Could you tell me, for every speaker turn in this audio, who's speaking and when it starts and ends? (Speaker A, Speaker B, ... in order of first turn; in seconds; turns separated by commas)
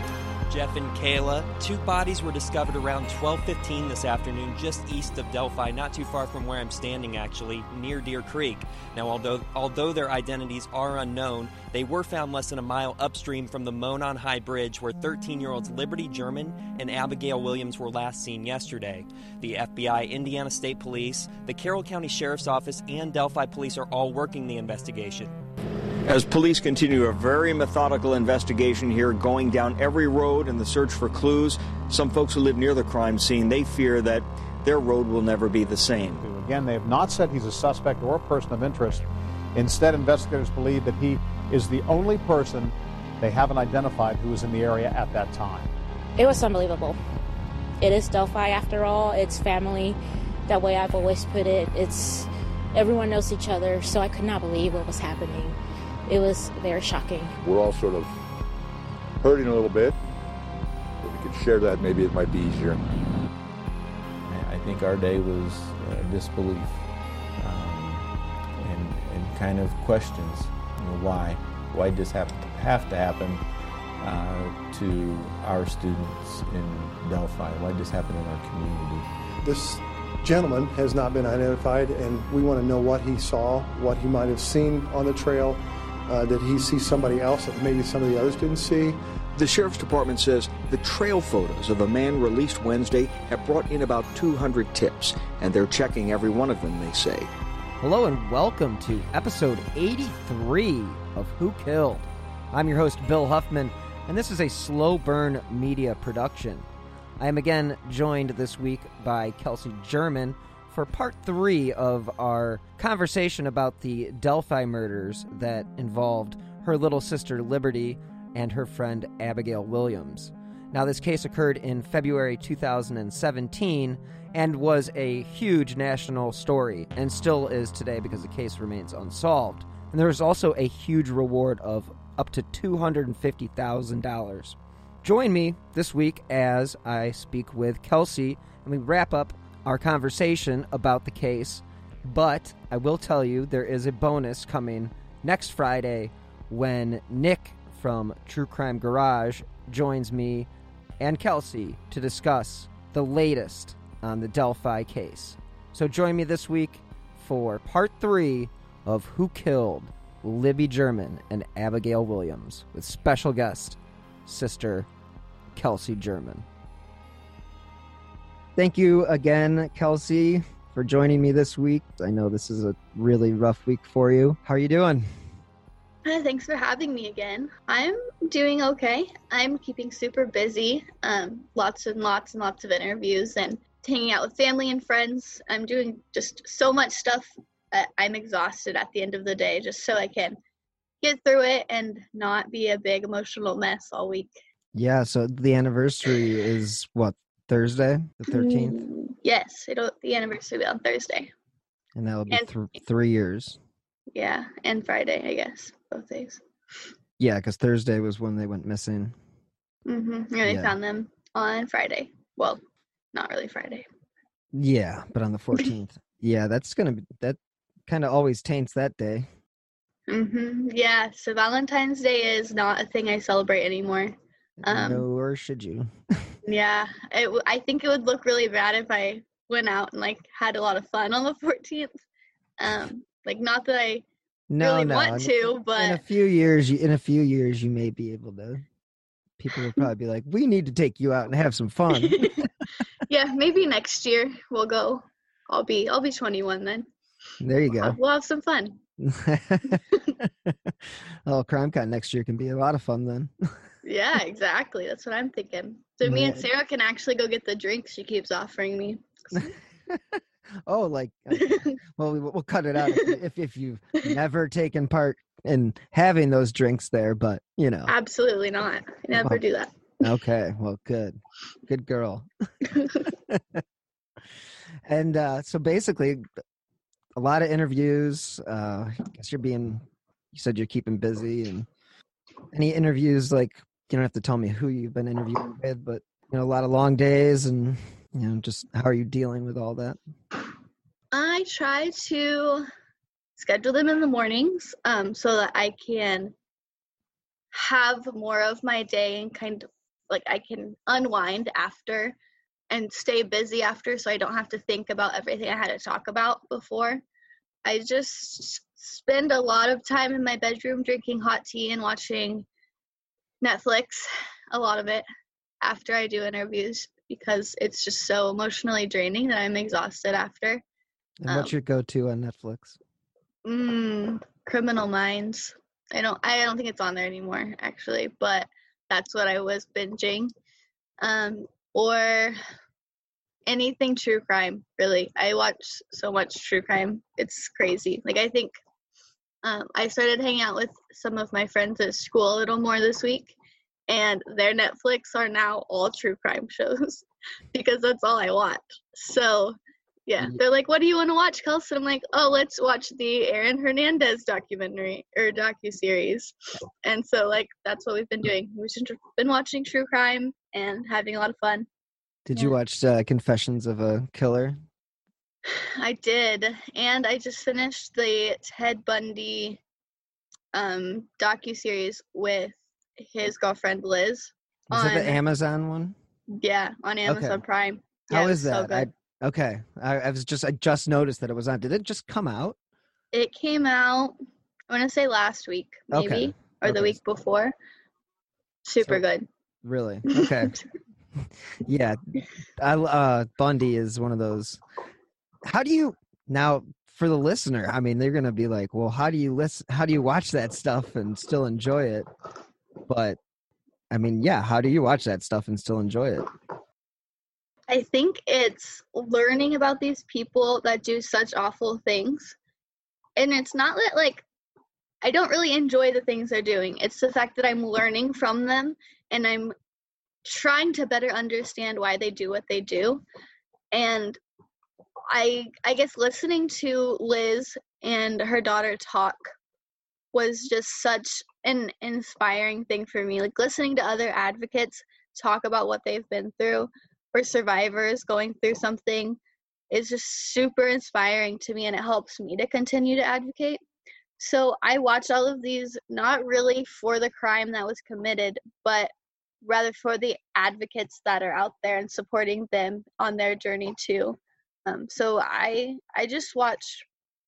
Speaker A: 0.5-25.3, Speaker B: 26.0-36.3, Speaker C: 36.2-45.7, Speaker D: 46.2-47.0, Speaker D: 47.8-57.4, Speaker E: 57.4-58.2, Speaker E: 59.2-60.0, Speaker E: 61.0-62.8, Speaker F: 64.3-66.9, Speaker F: 67.4-73.5, Speaker F: 74.0-79.1, Speaker G: 79.4-89.0, Speaker B: 89.3-97.3, Speaker H: 97.8-106.7, Speaker H: 107.2-150.5, Speaker H: 151.0-164.9, Speaker H: 165.6-166.5, Speaker H: 168.6-175.1, Speaker I: 176.1-190.4, Speaker I: 191.0-194.3, Speaker H: 194.8-198.8, Speaker I: 198.3-201.3, Speaker H: 201.9-203.6, Speaker I: 204.1-206.4, Speaker H: 207.2-209.2, Speaker I: 209.9-212.6, Speaker H: 210.4-210.7, Speaker I: 213.1-213.9, Speaker H: 214.5-219.3, Speaker I: 220.1-224.2, Speaker H: 224.6-226.3, Speaker I: 224.7-225.1, Speaker I: 226.4-232.0, Speaker I: 232.6-234.1, Speaker H: 234.5-238.7, Speaker I: 234.6-236.0, Speaker H: 239.4-242.5, Speaker I: 241.9-242.4, Speaker I: 243.1-246.9, Speaker H: 247.4-248.0, Speaker I: 247.8-248.8, Speaker H: 249.0-253.3, Speaker I: 253.8-259.5, Speaker H: 256.0-256.4, Speaker H: 259.4-267.9, Speaker I: 261.4-261.7, Speaker I: 267.9-269.8, Speaker H: 269.1-269.4, Speaker H: 270.0-272.3, Speaker H: 273.1-273.6, Speaker H: 274.9-276.2, Speaker H: 277.2-281.7, Speaker H: 282.5-290.0, Speaker I: 291.1-292.7, Speaker I: 293.4-296.3, Speaker I: 297.5-302.2, Speaker I: 302.7-307.0, Speaker I: 307.6-312.5, Speaker I: 313.4-315.1, Speaker I: 315.6-320.6, Speaker H: 321.2-322.8, Speaker I: 321.3-321.6, Speaker I: 323.4-330.3, Speaker I: 331.0-332.4, Speaker I: 333.5-338.5, Speaker I: 339.4-343.4, Speaker I: 343.9-349.6, Speaker I: 350.1-361.7, Speaker H: 362.3-364.6, Speaker I: 365.5-369.6, Speaker I: 370.5-375.2, Speaker H: 374.7-376.0, Speaker I: 376.4-378.9, Speaker H: 377.1-377.4, Speaker H: 378.1-382.6, Speaker I: 383.1-384.2, Speaker I: 384.7-387.5, Speaker H: 385.9-387.0, Speaker I: 388.7-389.3, Speaker H: 389.6-390.6, Speaker I: 390.1-390.6, Speaker H: 391.2-392.0, Speaker H: 392.6-394.6, Speaker H: 395.4-402.1, Speaker H: 402.9-403.2, Speaker H: 403.9-406.3, Speaker I: 407.7-412.4, Speaker I: 413.2-414.2, Speaker I: 415.0-419.5, Speaker I: 420.2-423.0, Speaker I: 423.7-424.2, Speaker I: 425.1-429.3, Speaker I: 430.1-439.2, Speaker I: 439.7-443.6, Speaker I: 444.2-448.9, Speaker I: 449.4-456.9